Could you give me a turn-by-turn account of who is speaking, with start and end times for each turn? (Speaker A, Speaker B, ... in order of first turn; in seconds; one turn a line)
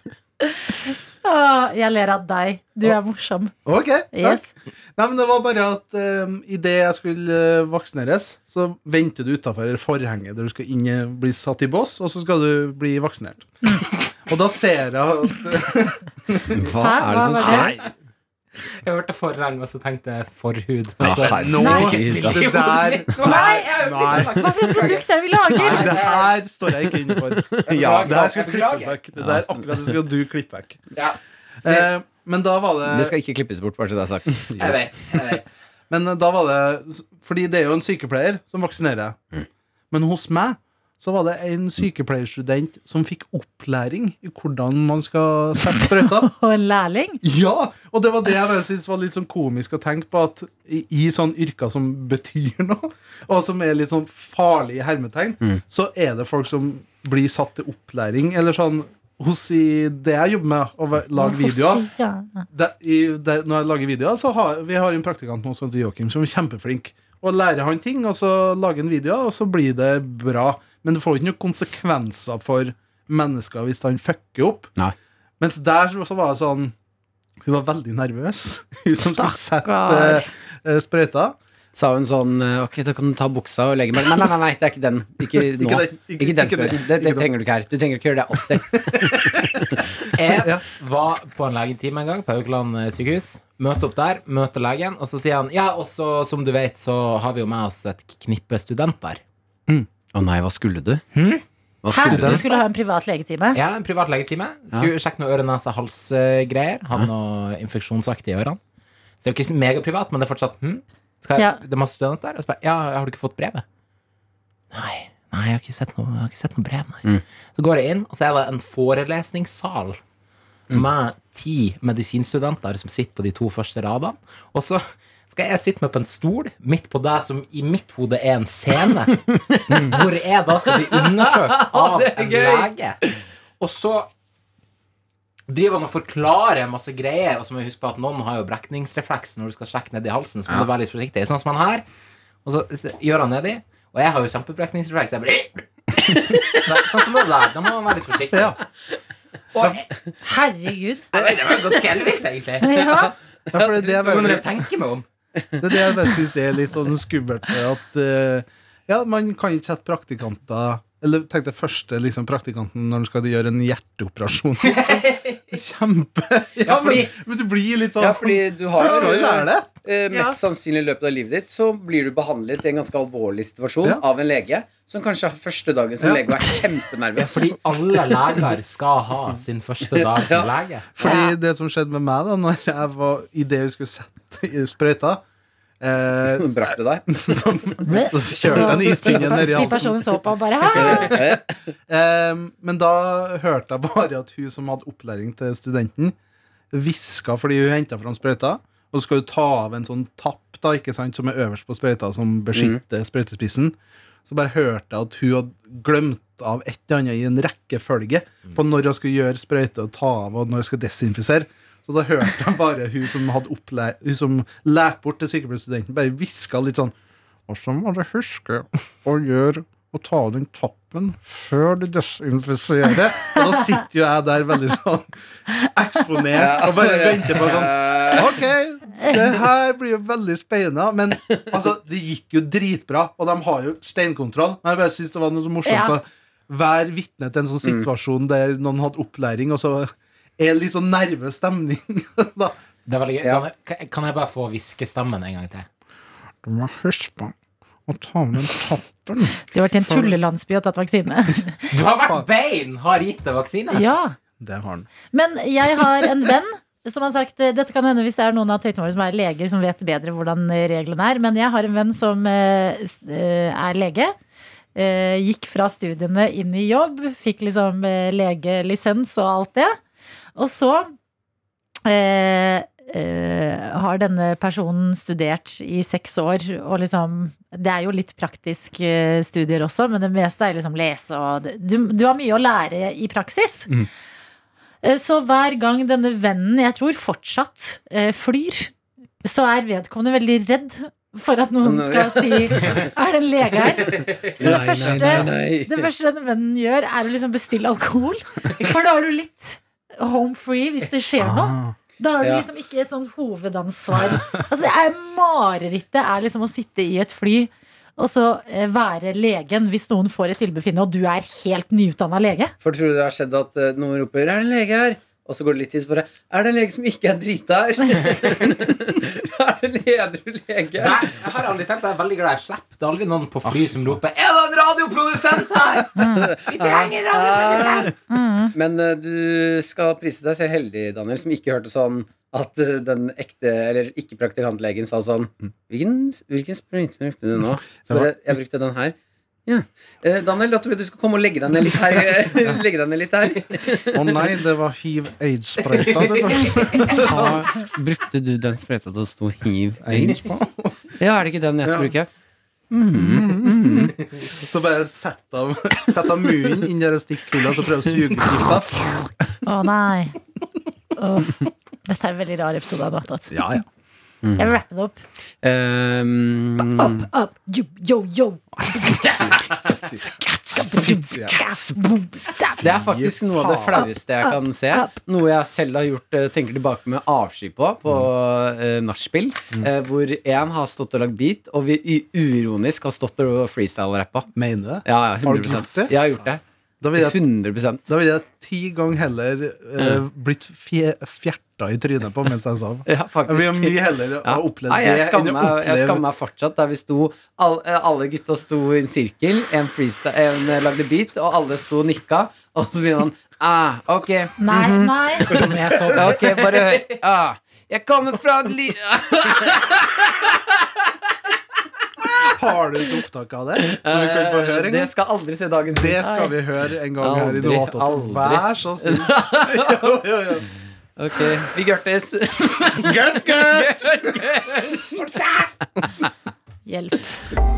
Speaker A: 0.7-3.5
Speaker B: 3.6-13.5
Speaker A: 4.1-4.5
Speaker B: 14.2-16.7
Speaker C: 16.5-17.8
Speaker A: 16.8-17.7
Speaker D: 17.4-17.8
Speaker D: 18.8-26.3
Speaker C: 21.0-22.7
Speaker B: 21.1-24.4
Speaker A: 21.6-21.9
Speaker A: 23.2-26.1
Speaker B: 25.6-30.8
Speaker C: 27.4-28.2
Speaker D: 27.6-28.9
Speaker C: 29.2-29.5
Speaker D: 30.9-31.9
Speaker B: 31.6-33.1
Speaker C: 32.9-34.5
Speaker B: 34.5-35.4
Speaker D: 34.6-35.5
Speaker B: 35.9-39.2
Speaker B: 39.9-46.3
Speaker A: 46.0-47.2
Speaker B: 47.2-61.8
Speaker A: 61.1-62.4
Speaker B: 62.5-74.7
Speaker B: 75.4-76.7
Speaker B: 77.4-81.4
Speaker A: 79.0-80.3
Speaker C: 81.7-89.8
Speaker B: 85.5-87.3
Speaker B: 88.7-89.6
Speaker D: 90.1-99.2
Speaker C: 100.1-101.0
Speaker D: 101.1-102.6
Speaker C: 101.8-102.5
Speaker A: 101.9-103.6
Speaker D: 103.5-108.6
Speaker D: 109.2-113.6
Speaker A: 111.3-111.6
Speaker D: 114.7-120.0
Speaker D: 120.7-133.0
Speaker B: 129.7-130.0
Speaker C: 130.9-133.1
Speaker D: 133.6-134.1
Speaker D: 135.5-141.8
Speaker D: 142.4-148.6
Speaker B: 148.3-148.6
Speaker D: 149.6-149.8
Speaker A: 150.2-151.1
Speaker D: 151.1-152.9
Speaker A: 152.6-153.1
Speaker B: 153.5-154.5
Speaker C: 153.5-154.4
Speaker D: 153.9-155.0
Speaker B: 155.6-169.7
Speaker D: 164.6-165.4
Speaker D: 166.6-167.1
Speaker C: 168.0-177.5
Speaker B: 176.0-176.5
Speaker D: 177.2-180.9
Speaker C: 179.9-180.5
Speaker B: 180.9-185.2
Speaker A: 181.0-181.3
Speaker B: 185.8-190.0
Speaker C: 186.3-187.7
Speaker A: 187.8-191.1
Speaker C: 188.5-189.1
Speaker C: 190.7-191.5
Speaker B: 190.7-196.1
Speaker B: 196.7-216.9
Speaker C: 202.5-202.8
Speaker B: 217.5-242.6
Speaker C: 226.3-228.4
Speaker A: 235.7-235.9
Speaker D: 242.8-245.7
Speaker B: 246.4-247.3
Speaker B: 247.9-250.1
Speaker A: 249.5-251.7
Speaker D: 251.7-253.8
Speaker A: 253.7-254.2
Speaker B: 254.4-254.9
Speaker A: 255.1-264.1
Speaker A: 264.8-269.8
Speaker A: 270.4-270.9
Speaker A: 271.8-283.7
Speaker A: 284.8-288.7
Speaker A: 289.2-312.5
Speaker C: 291.6-292.9
Speaker D: 293.9-295.3
Speaker C: 294.4-295.9
Speaker B: 301.4-301.7
Speaker C: 302.2-302.5
Speaker C: 312.6-321.1
Speaker D: 320.8-327.9
Speaker B: 323.4-323.7
Speaker A: 326.0-326.3
Speaker C: 326.1-327.9
Speaker A: 328.1-328.5
Speaker C: 328.5-338.9
Speaker B: 337.8-338.1
Speaker C: 339.5-344.2
Speaker B: 343.9-347.5
Speaker D: 345.8-347.0
Speaker C: 346.9-350.4
Speaker B: 349.8-350.8
Speaker C: 351.0-352.1
Speaker B: 351.6-351.9
Speaker C: 352.7-353.9
Speaker B: 352.9-359.1
Speaker A: 359.4-360.1
Speaker A: 360.9-363.3
Speaker B: 363.3-363.6
Speaker C: 364.2-364.5
Speaker A: 364.4-365.0
Speaker C: 365.4-367.1
Speaker A: 366.8-369.0
Speaker B: 368.6-370.0
Speaker D: 369.2-369.5
Speaker A: 370.0-372.6
Speaker B: 370.5-371.5
Speaker B: 372.6-373.9
Speaker C: 372.6-384.3
Speaker A: 373.7-374.9
Speaker B: 384.3-386.0
Speaker C: 384.9-386.4
Speaker B: 386.8-387.2
Speaker C: 386.9-387.9
Speaker B: 387.9-396.0
Speaker C: 389.8-390.0
Speaker C: 392.9-410.4
Speaker A: 404.4-405.5
Speaker D: 405.2-407.0
Speaker B: 412.2-414.9
Speaker C: 413.7-416.1
Speaker B: 415.7-420.5
Speaker A: 416.0-416.3
Speaker C: 417.0-420.0
Speaker C: 421.0-425.1
Speaker B: 422.7-424.2
Speaker B: 424.9-425.9
Speaker A: 426.7-427.2